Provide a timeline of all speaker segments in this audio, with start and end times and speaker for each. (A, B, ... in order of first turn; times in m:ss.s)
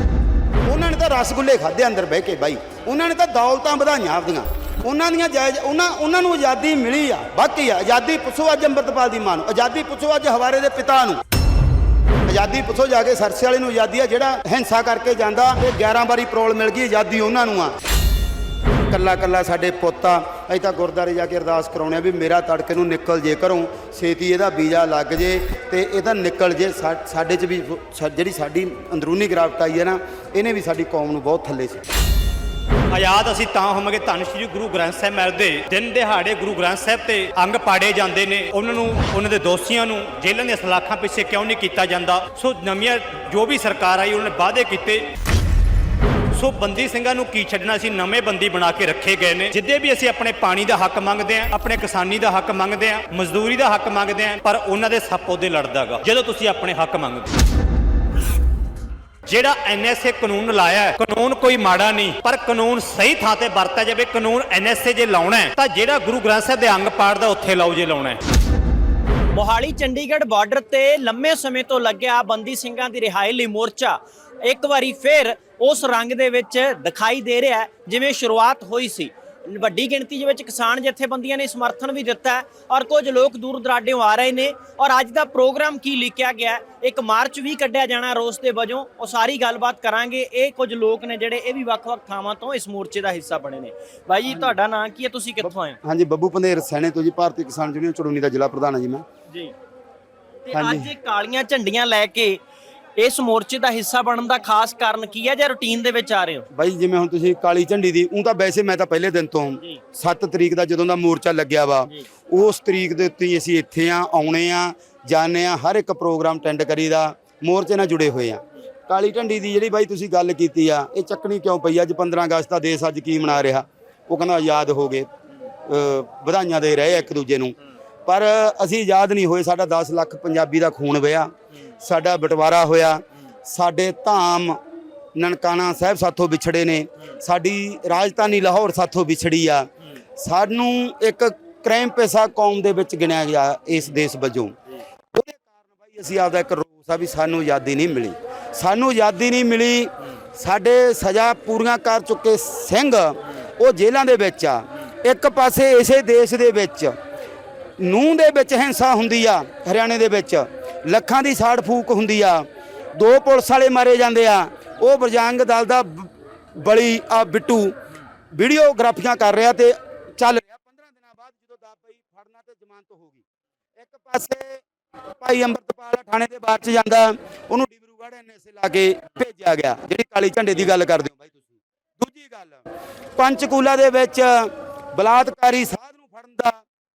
0:00.7-0:11.2 A
0:12.3-0:17.8 A
0:18.9-0:31.8 A
0:32.9-0:45.1 B
0:46.3-0:57.3 B
0:59.3-1:08.2 B
1:09.3-1:35.8 C
1:34.3-1:34.5 A
1:35.4-1:39.0 A
1:40.4-1:42.4 C
1:40.5-1:40.9 A
1:43.0-1:46.5 C
1:46.5-2:05.1 A
2:05.7-2:07.5 A
2:08.1-2:14.6 A
2:15.2-2:24.6 A
2:25.1-2:37.0 A
2:37.8-2:47.8 A
2:48.3-2:53.2 A
2:53.8-2:54.6 A
2:55.2-3:02.6 A
3:03.2-3:06.6 A